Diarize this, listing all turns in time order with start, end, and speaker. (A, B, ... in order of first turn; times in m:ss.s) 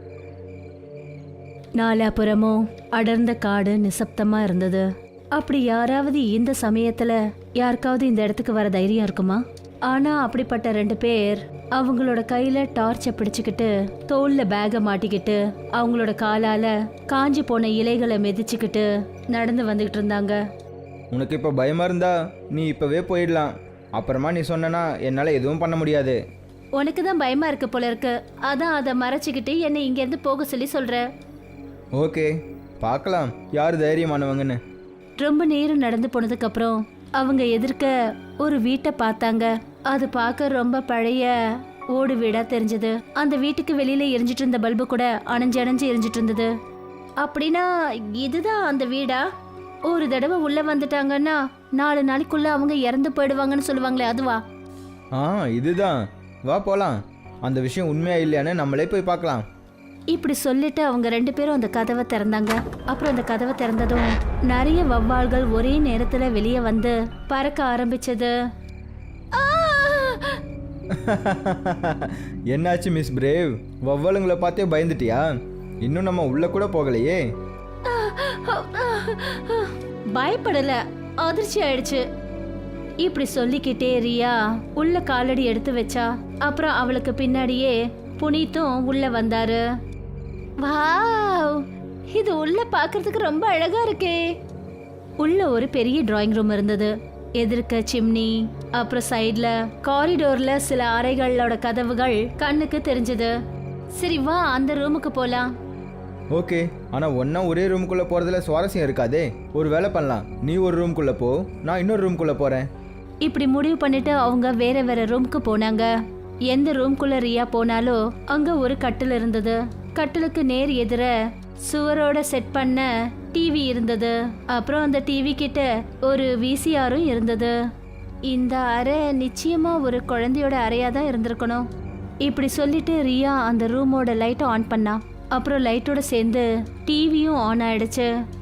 0:01.8-0:20.4 A
0:21.1-0:26.2 B
0:26.8-0:31.0 A
0:32.0-0:34.6 B
0:35.2-0:41.3 A
0:41.9-0:46.5 A
0:47.2-0:49.2 A
0:49.9-0:54.4 A
0:55.1-0:59.4 B
1:00.1-1:08.3 A
1:09.3-1:10.4 A
1:10.9-1:15.3 B
1:15.8-1:17.2 B
1:17.8-1:22.0 A
1:23.0-1:29.6 A
1:30.6-1:34.2 A
1:35.2-1:43.3 A
1:44.0-1:45.5 A
1:46.3-1:52.7 B
1:53.2-1:55.9 A
1:56.5-2:01.1 A
2:01.6-2:07.5 A
2:08.3-2:11.7 A
2:12.2-2:18.1 A